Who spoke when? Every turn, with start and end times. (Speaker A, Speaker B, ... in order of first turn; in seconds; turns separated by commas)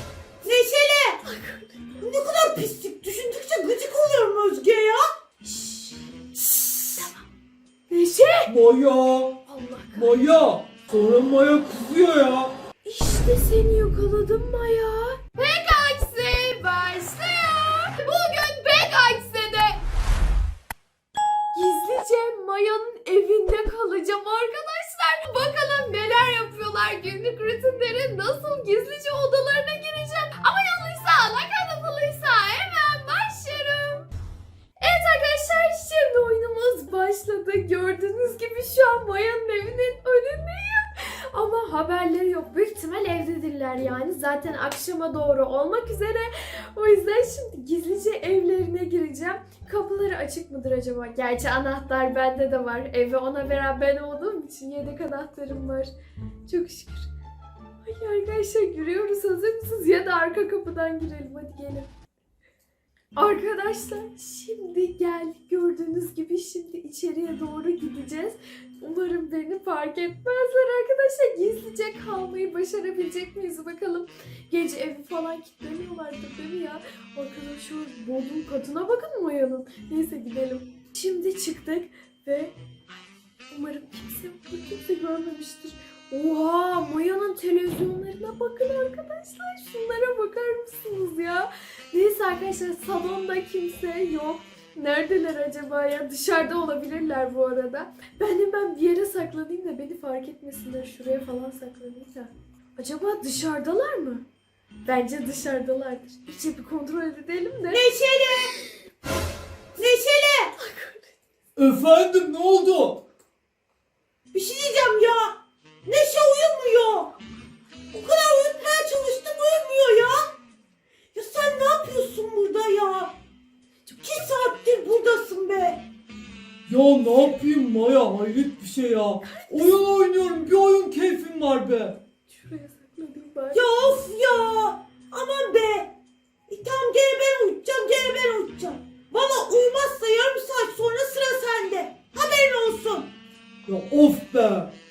Speaker A: 0.4-1.2, Speaker B: 1.2-2.0, Speaker A: 2.0-5.0, Speaker B: 5.4-6.3, Speaker B: 6.9-7.3, Speaker B: 7.9-8.5, Speaker C: 8.5-9.4, Speaker B: 9.4-10.1, Speaker C: 9.9-12.5, Speaker B: 12.8-19.8, Speaker B: 21.5-34.1, Speaker B: 34.8-55.9, Speaker B: 56.5-57.1, Speaker B: 57.8-61.9, Speaker B: 63.1-104.2, Speaker B: 104.8-107.8, Speaker A: 107.7-108.5, Speaker A: 109.8-110.5, Speaker B: 110.6-111.1, Speaker C: 111.5-113.0, Speaker A: 114.3-117.1, Speaker A: 117.9-120.2, Speaker A: 121.1-123.1, Speaker A: 124.0-125.8, Speaker C: 126.7-132.0, Speaker B: 129.2-129.8, Speaker B: 132.3-133.6, Speaker A: 133.5-135.9, Speaker A: 136.5-143.1, Speaker C: 143.7-144.7